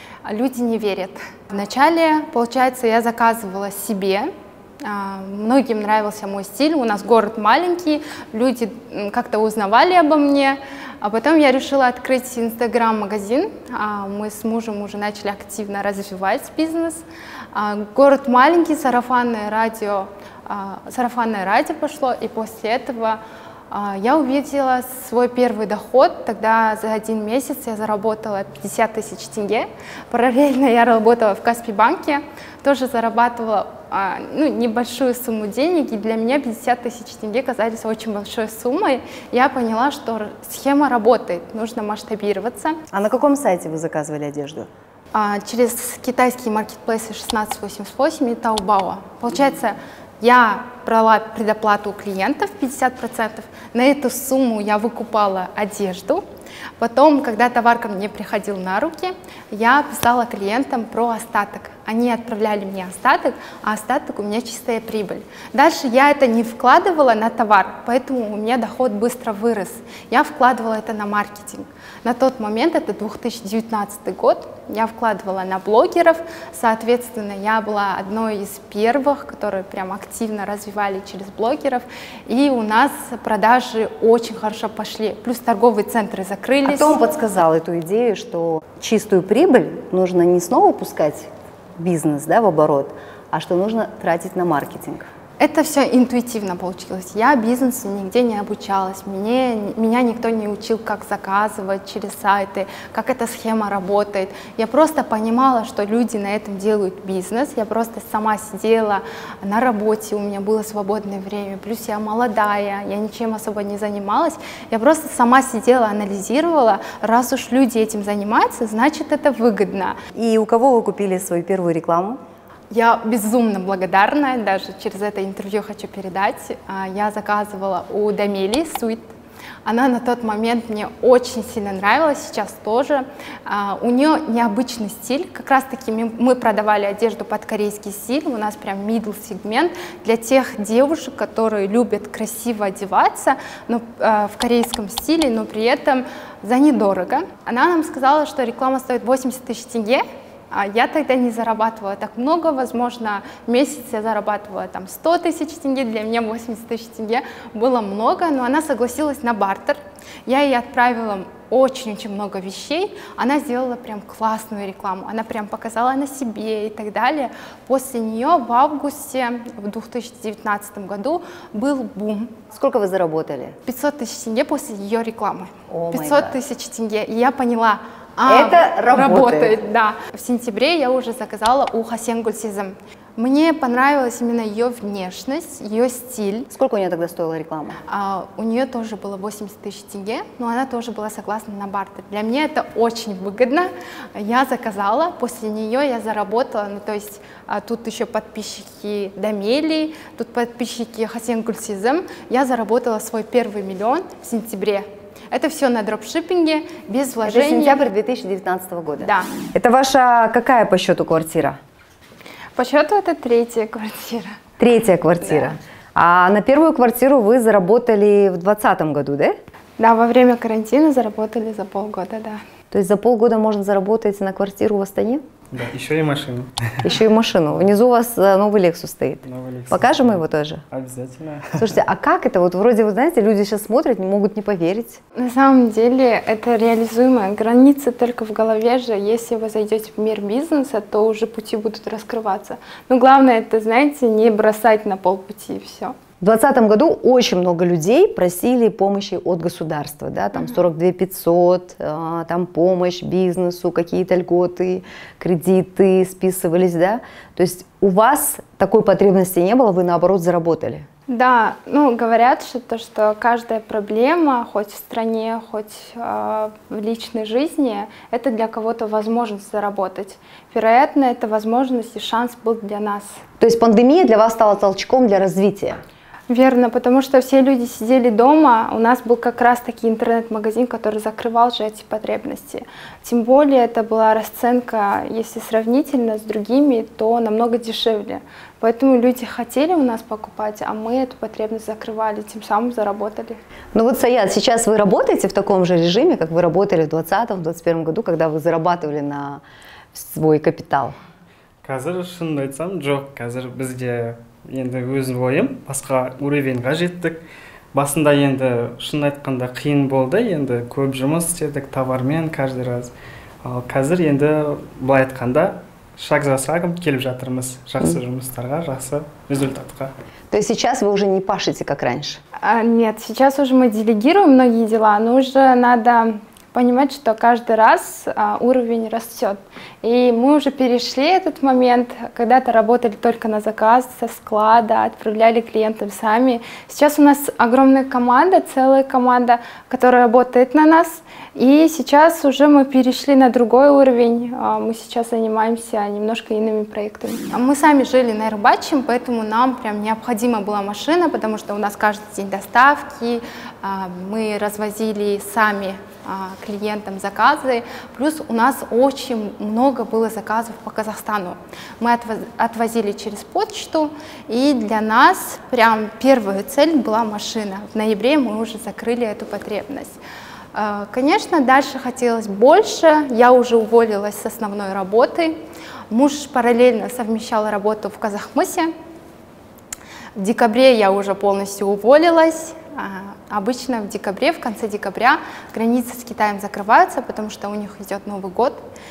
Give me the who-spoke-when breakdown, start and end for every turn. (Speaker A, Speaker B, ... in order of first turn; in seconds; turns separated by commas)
Speaker A: 0.2-23.2, Speaker A: 23.7-42.8, Speaker B: 42.9-44.7, Speaker A: 45.1-56.2, Speaker A: 56.8-87.0, Speaker B: 86.7-95.1, Speaker A: 95.4-120.0, Speaker B: 120.1-122.2, Speaker A: 122.7-129.1, Speaker A: 129.7-172.4, Speaker B: 172.5-173.6, Speaker A: 173.7-186.5, Speaker B: 175.7-176.4, Speaker B: 178.3-179.6, Speaker B: 186.5-187.8, Speaker A: 187.9-207.8, Speaker B: 207.2-211.6, Speaker A: 209.0-209.3, Speaker A: 212.6-214.4, Speaker B: 214.6-219.4, Speaker A: 219.8-222.4, Speaker B: 222.7-225.2, Speaker C: 225.5-226.9, Speaker B: 226.8-230.6, Speaker C: 229.3-231.7, Speaker B: 231.6-235.0, Speaker A: 235.2-246.0, Speaker B: 246.2-260.9, Speaker A: 261.1-273.2, Speaker B: 273.4-275.8, Speaker A: 276.3-293.4, Speaker B: 293.8-299.4, Speaker B: 299.9-301.0, Speaker C: 301.6-307.2, Speaker C: 307.7-312.9, Speaker C: 313.4-319.9, Speaker B: 320.3-322.2, Speaker A: 322.4-370.0, Speaker A: 370.5-375.4, Speaker A: 375.9-378.7, Speaker A: 380.2-388.6